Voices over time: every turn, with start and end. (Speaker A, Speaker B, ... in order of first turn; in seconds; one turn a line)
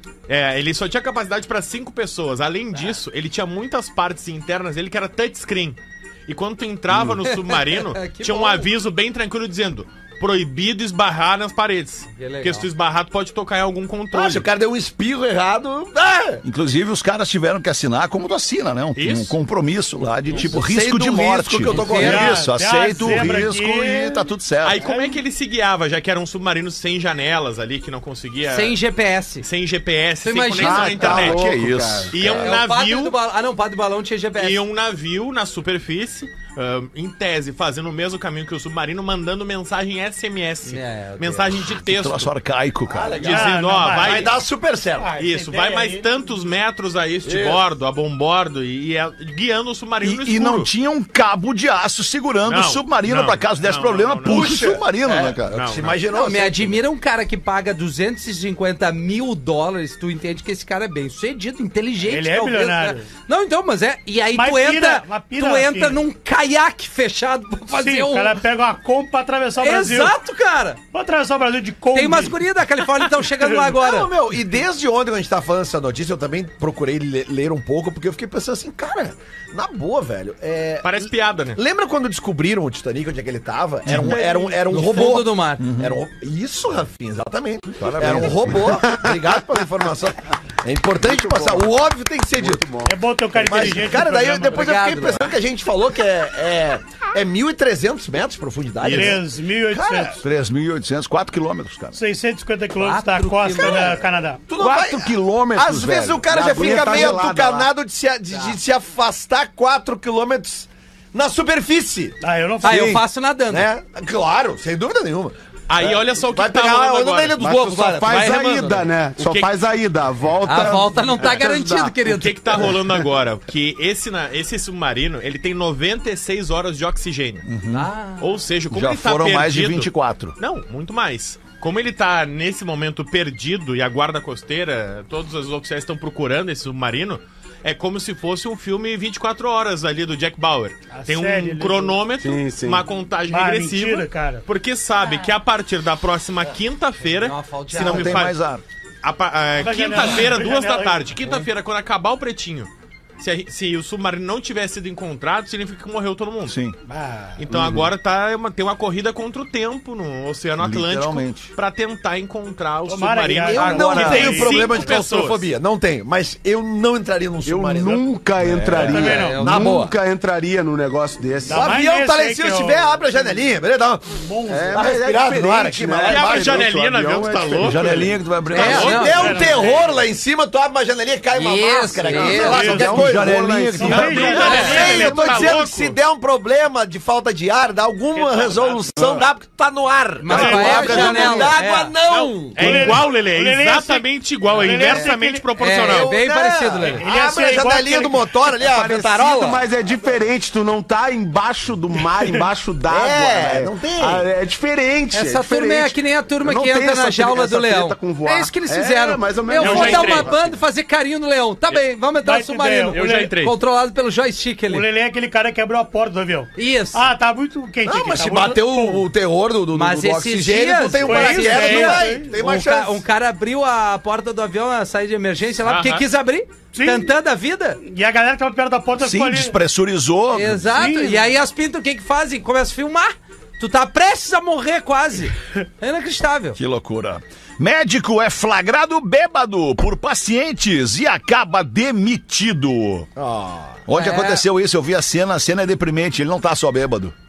Speaker A: 0.3-14.4
Speaker B: 6.9-7.2
Speaker C: 7.2-8.7
Speaker C: 12.1-12.7
Speaker D: 14.1-16.4
Speaker B: 16.4-24.9
Speaker A: 18.9-19.4
Speaker D: 20.3-22.4
Speaker C: 21.6-22.3
Speaker E: 21.9-24.3
Speaker A: 24.6-28.8
Speaker E: 24.8-25.1
Speaker C: 28.4-29.5
Speaker A: 29.4-31.4
Speaker C: 30.2-30.9
Speaker F: 30.6-32.2
Speaker B: 30.6-32.5
Speaker A: 32.1-33.1
Speaker C: 32.3-34.6
Speaker A: 34.3-42.3
Speaker C: 40.6-41.6
Speaker B: 41.8-43.2
Speaker D: 42.9-45.1
Speaker A: 43.2-44.4
Speaker E: 43.2-44.4
Speaker E: 45.0-46.1
Speaker A: 45.1-50.7
Speaker D: 47.2-47.6
Speaker B: 50.0-55.5
Speaker A: 52.4-54.5
Speaker D: 54.2-56.8
Speaker A: 55.5-56.0
Speaker C: 56.1-68.4
Speaker E: 62.0-63.1
Speaker E: 64.3-66.0
Speaker E: 67.7-70.2
Speaker C: 69.6-70.8
Speaker E: 70.9-72.4
Speaker C: 71.9-74.1
Speaker D: 73.7-92.8
Speaker A: 80.8-81.6
Speaker B: 83.8-84.2
Speaker E: 84.2-84.5
Speaker C: 84.5-85.7
Speaker B: 85.6-86.0
Speaker B: 87.8-88.9
Speaker F: 91.0-93.0
Speaker E: 92.8-94.8
Speaker D: 93.4-100.2
Speaker C: 94.5-95.2
Speaker A: 98.8-99.2
Speaker E: 98.9-100.2
Speaker B: 100.2-102.0
Speaker E: 101.9-104.4
Speaker C: 102.8-104.0
Speaker D: 104.5-112.2
Speaker B: 104.5-107.0
Speaker F: 105.6-107.7
Speaker E: 112.2-113.0
Speaker C: 112.6-113.7
Speaker F: 112.7-113.0
Speaker D: 113.5-118.9
Speaker A: 115.7-117.5
Speaker F: 117.4-122.0
Speaker A: 119.2-119.5
Speaker C: 120.4-122.4
Speaker A: 122.0-127.5
Speaker B: 127.5-127.9
Speaker C: 127.7-128.3
Speaker A: 128.2-148.3
Speaker B: 128.7-130.3
Speaker E: 140.9-142.0
Speaker F: 142.2-142.8
Speaker E: 143.3-144.4
Speaker C: 147.1-148.2
Speaker B: 147.7-148.6
Speaker A: 149.0-156.6
Speaker E: 149.6-151.1
Speaker B: 156.5-156.8
Speaker E: 156.9-157.4
Speaker A: 157.4-165.5
Speaker B: 160.6-161.5
Speaker E: 162.9-164.9
Speaker D: 163.5-168.0
Speaker B: 163.6-164.4
Speaker F: 167.4-171.7
Speaker B: 168.5-168.9
Speaker D: 168.6-169.9
Speaker E: 168.8-169.4
Speaker C: 168.9-169.8
Speaker E: 171.4-173.3
Speaker D: 171.5-176.7
Speaker E: 174.2-174.8
Speaker F: 174.5-178.1
Speaker A: 176.1-179.9
Speaker B: 177.6-179.1
Speaker D: 178.5-193.0
Speaker C: 178.5-179.4
Speaker E: 178.6-179.9
Speaker C: 181.3-182.7
Speaker F: 182.2-184.3
Speaker E: 182.3-183.0
Speaker B: 182.5-184.9
Speaker E: 183.8-185.6
Speaker A: 184.1-186.0
Speaker A: 188.2-189.2
Speaker E: 188.4-188.7
Speaker C: 190.2-191.9
Speaker B: 190.3-191.6
Speaker E: 190.3-191.1
Speaker A: 192.1-196.1
Speaker E: 192.6-195.5
Speaker C: 195.6-197.0
Speaker D: 195.7-199.7
Speaker E: 196.8-198.3
Speaker F: 198.6-210.6
Speaker D: 202.9-204.2
Speaker C: 205.1-214.8
Speaker A: 209.6-210.3
Speaker E: 209.6-210.2
Speaker E: 212.2-213.4
Speaker A: 212.9-213.5
Speaker E: 214.7-219.1
Speaker C: 216.6-217.0
Speaker D: 217.8-223.0
Speaker C: 219.7-227.8
Speaker E: 221.0-222.4
Speaker A: 225.6-226.0
Speaker E: 226.7-227.1
Speaker E: 227.8-229.6
Speaker B: 229.0-230.7
Speaker C: 230.3-236.6
Speaker E: 230.7-231.3
Speaker B: 236.6-243.1
Speaker D: 243.2-243.8
Speaker B: 243.8-247.1
Speaker C: 243.9-244.4